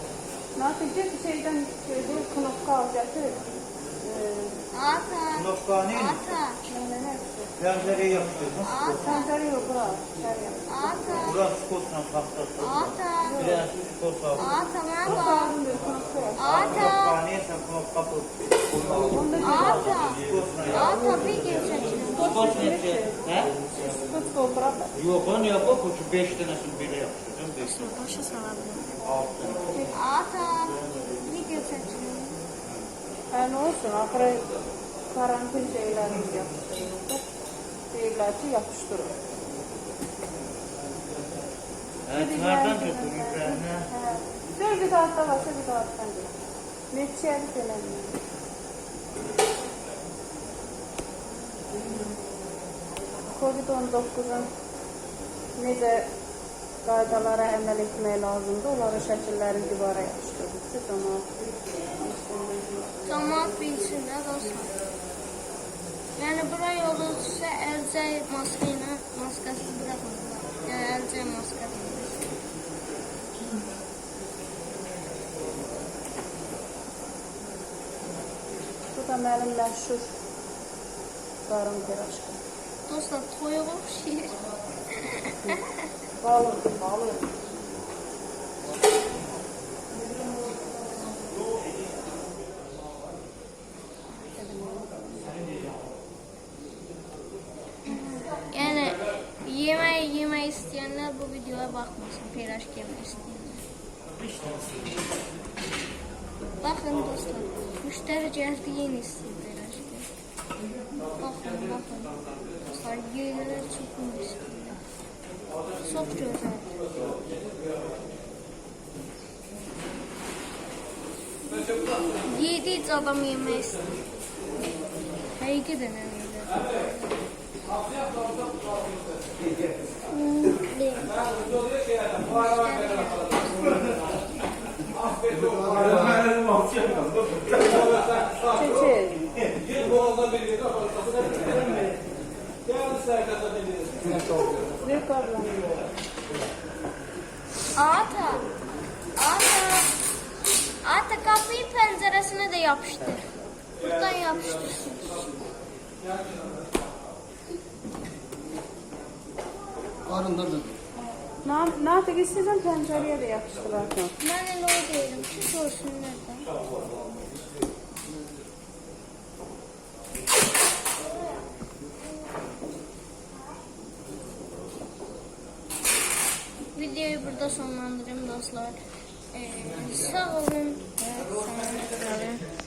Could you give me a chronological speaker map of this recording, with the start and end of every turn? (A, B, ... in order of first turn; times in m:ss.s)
0:00.6-0:03.4 A
0:04.0-0:04.6 A
0:04.7-0:06.6 B
0:05.4-0:06.2 C
0:06.6-0:07.7 A
0:07.6-0:08.8 C
0:08.6-0:09.3 B
0:09.0-0:11.2 A
0:10.7-0:11.5 B
0:11.3-0:12.8 C
0:12.6-0:13.5 B
0:13.2-0:13.7 A
0:13.4-0:14.4 C
0:14.4-0:15.6 B
0:15.0-0:16.7 A
0:16.4-0:17.2 B
0:16.6-0:21.5 C
0:19.0-0:20.1 A
0:19.4-0:22.4 B
0:20.8-0:25.0 A
0:22.1-0:23.5 C
0:25.0-0:27.7 C
0:27.6-0:28.9 B
0:29.8-0:32.4 B
0:33.3-0:34.5 A
0:35.1-0:37.2 A
0:37.9-0:39.2 A
0:42.1-0:46.3 A
0:42.1-0:43.8 C
0:46.9-0:48.2 A
0:53.3-0:54.5 A
0:55.6-0:56.1 A
0:56.8-1:01.3 A
1:01.9-1:03.2 A
1:03.0-1:04.7 B
1:06.2-1:12.3 B
1:18.9-1:20.1 A
1:21.5-1:22.4 A
1:22.9-1:24.4 B
1:24.9-1:25.5 B
1:26.2-1:27.3 A
1:34.2-1:35.4 A
1:38.4-1:43.6 B
1:46.6-1:50.1 B
1:51.1-1:54.8 B
1:55.8-1:56.7 B
2:01.6-2:03.9 B
2:05.4-2:07.1 B
2:10.1-2:11.2 B
2:12.0-2:14.2 B
2:18.4-2:19.3 A
2:24.8-2:25.8 A
2:27.8-2:28.5 B
2:29.2-2:29.9 B
2:30.8-2:35.4 B
2:41.4-2:44.1 A
2:44.2-2:46.5 B
2:56.8-2:58.8 B
2:59.3-3:02.4 B